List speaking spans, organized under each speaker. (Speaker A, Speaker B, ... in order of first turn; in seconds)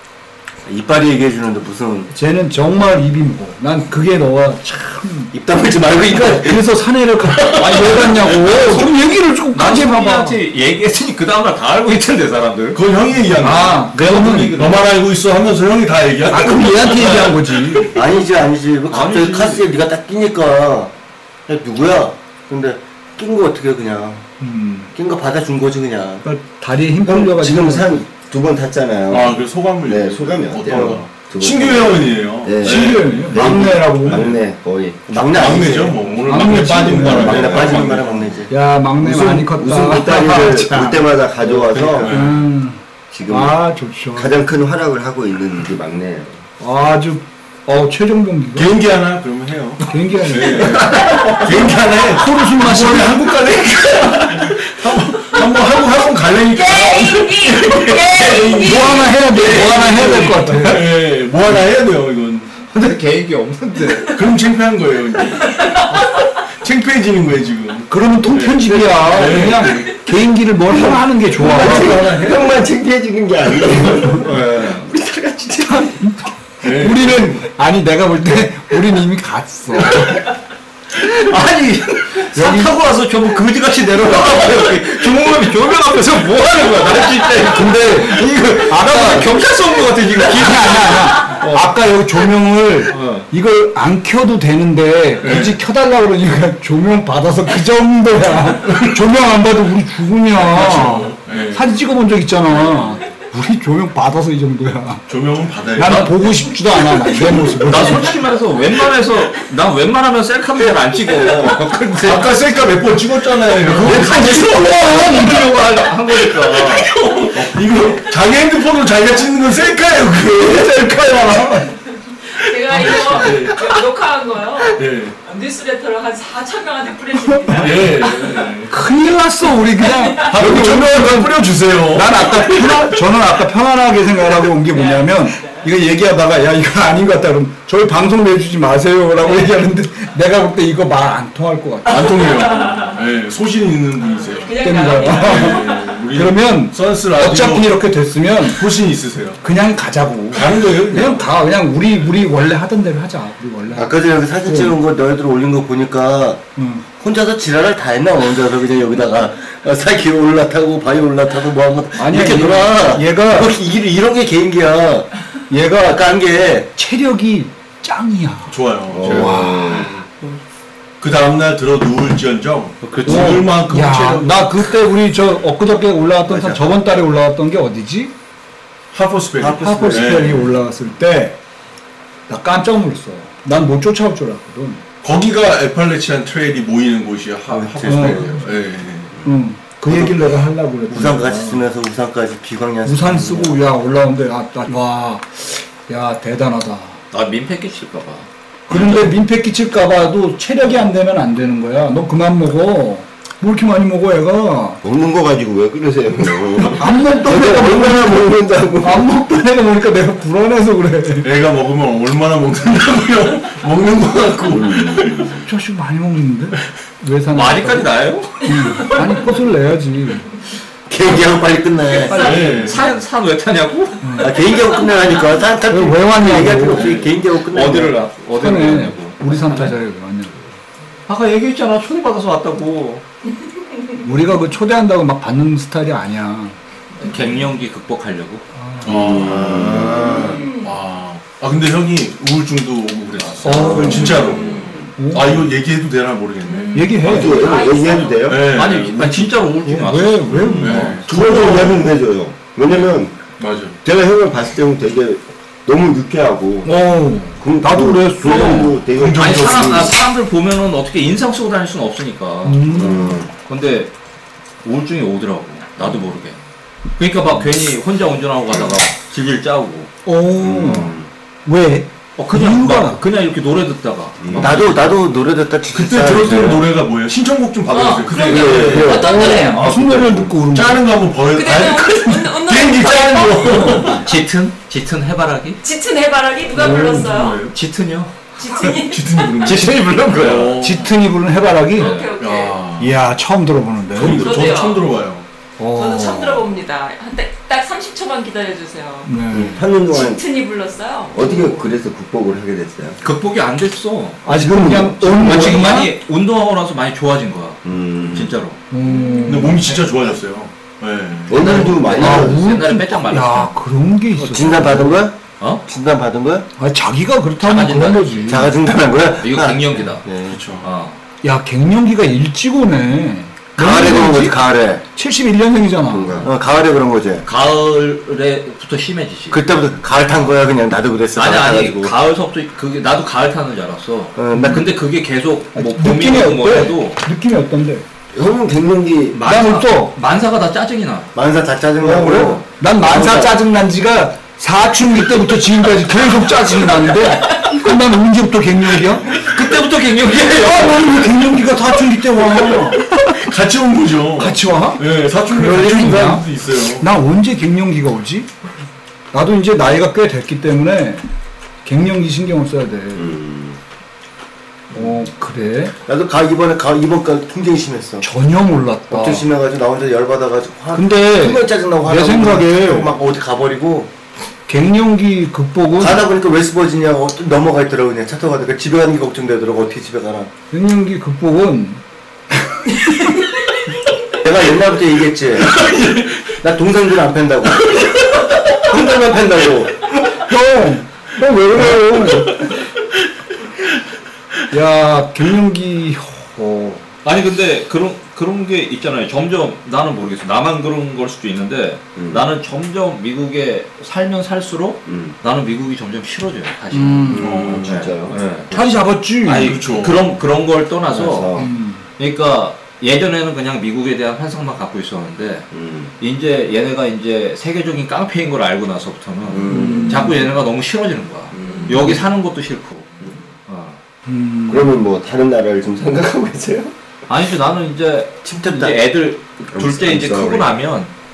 Speaker A: 0.6-2.1, 5.3-6.6, 7.3-7.7, 17.9-20.9, 21.5-24.3, 24.9-26.2, 30.7-31.0, 35.1-36.1, 36.8-38.5, 40.2-42.1, 153.7-156.4, 157.0-165.1, 165.8-166.7, 176.3-176.7, 179.4-180.4, 187.5-188.3, 189.8-190.3, 190.9-193.6, 220.9-222.3, 224.2-228.1, 239.9-240.4, 274.4-276.7, 314.2-316.4, 318.3-320.4, 323.6-324.8, 326.2-327.2, 329.3-331.9, 334.1-334.7, 341.1-343.4, 365.9-368.1, 368.9-373.9, 375.8-380.3, 384.2-385.6, 386.3-387.9, 388.5-389.9, 428.2-428.8
Speaker B: 2.1-5.3, 6.0-10.4, 13.3-14.8, 16.3-17.9, 24.4-24.9, 26.2-28.0, 32.6-34.3, 36.2-37.5, 38.5-40.8, 42.1-44.3, 46.6-48.7, 49.9-53.3, 58.5-60.9, 67.9-72.1, 75.6-80.3, 82.3-82.7, 87.3-89.4, 90.2-105.0, 105.7-108.2, 113.7-115.8, 120.4-121.7, 128.7-142.3, 144.6-148.7, 149.4-154.8, 156.6-156.8, 162.0-163.6, 165.5-166.1, 166.7-169.9, 173.0-178.1, 179.4-181.4, 182.3-184.8, 187.8-188.4, 189.2-191.6, 192.8-197.0, 198.7-204.8, 206.7-211.3, 215.4-220.2, 222.2-222.8, 224.0-224.3, 225.7-227.0, 228.3-230.6, 234.0-236.6, 238.5-239.3, 243.4-244.3, 245.0-245.5, 246.7-247.5, 249.6-251.1, 256.6-258.8, 262.4-263.2, 270.1-273.0, 278.8-280.9, 286.6-287.1, 290.6-292.0, 292.8-294.4, 295.6-296.4, 299.1-299.6, 304.2-305.9, 308.7-309.7, 312.0-315.1, 316.6-318.6, 321.2-326.2, 334.3-334.6, 335.5-337.8, 339.1-339.9, 341.8-349.2, 350.2-352.9, 354.2-358.3, 359.1-361.1, 361.6-363.2, 364.7-365.7, 368.0-369.3, 370.7-372.9, 374.5-376.1, 380.5-383.1, 390.2-392.5, 394.5-396.9, 406.7-407.5, 408.5-409.6, 411.4-411.8, 419.5-420.1, 424.1-424.7
Speaker C: 7.5-12.8, 18.9-19.6, 59.6-60.3, 62.6-64.2, 74.2-74.9, 80.9-91.7, 92.9-93.3, 107.6-112.5, 113.6-117.0, 172.8-173.4, 197.1-198.9, 217.3-218.6, 222.6-224.1, 227.3-229.8, 231.1-233.0, 237.0-238.4, 248.4-250.7, 258.3-263.9, 264.6-266.4, 267.0-269.9, 272.2-274.9, 283.9-285.6, 287.5-288.2, 289.4-290.6, 291.8-292.1, 303.0-304.2, 305.1-308.6, 311.5-313.5, 315.4-315.6, 317.4-318.5, 319.1-321.0, 327.2-329.5, 331.1-337.0, 339.2-341.1, 349.1-351.3, 397.0-408.5, 409.2-423.8, 427.1-430.9
Speaker D: 12.7-17.4, 29.1-34.4, 35.3-38.3, 41.7-42.4, 48.5-62.5, 64.1-65.6, 66.6-70.0, 71.3-72.4, 76.6-77.4, 95.2-95.6, 98.7-99.0, 100.4-101.7, 105.1-106.2, 107.2-108.0, 112.0-114.3, 117.2-120.8, 122.7-123.8, 124.7-125.2, 127.5-128.7, 130.2-132.9, 141.8-147.7, 148.4-149.4, 150.3-151.2, 168.5-170.0, 171.0-174.7, 178.9-180.5, 185.0-189.1, 211.2-215.3, 222.1-222.9, 226.7-227.1, 238.8-249.3, 250.5-251.8, 252.7-253.8, 258.9-259.9, 275.7-279.1, 280.5-284.1, 286.5-287.5, 288.7-290.9, 292.1-292.9, 293.9-295.3, 309.2-311.9, 320.3-320.7, 353.1-356.9, 385.5-386.1, 407.2-407.6, 409.4-410.1
Speaker E: 27.1-35.1, 36.9-38.1, 39.2-42.1, 43.1-43.6, 44.1-46.4, 70.7-75.9, 168.9-170.0, 204.8-209.0, 214.5-215.4, 238.9-240.4, 243.4-244.9, 247.0-248.5, 250.4-256.7, 257.4-259.9, 262.8-263.3, 270.4-271.1, 274.2-274.6, 278.2-280.5, 299.3-300.2, 301.1-303.0, 304.3-305.8, 307.6-308.4, 311.3-312.4, 325.9-326.3, 338.1-339.2, 362.9-363.6, 401.9-402.2, 404.9-405.2, 407.1-408.4, 410.9-411.5, 415.5-415.9, 419.2-420.1, 421.3-422.0, 424.5-426.7, 429.5-430.6
Speaker F: 56.5-59.3, 65.4-66.2, 122.1-128.6, 129.8-130.4, 134.7-135.7, 141.9-143.0, 144.0-145.9, 222.1-222.4, 240.2-240.7, 244.2-244.9, 246.4-248.4, 277.7-279.7, 281.3-284.0, 285.6-287.4, 288.4-289.3, 291.8-292.6, 294.1-294.8, 295.7-301.7, 308.8-309.5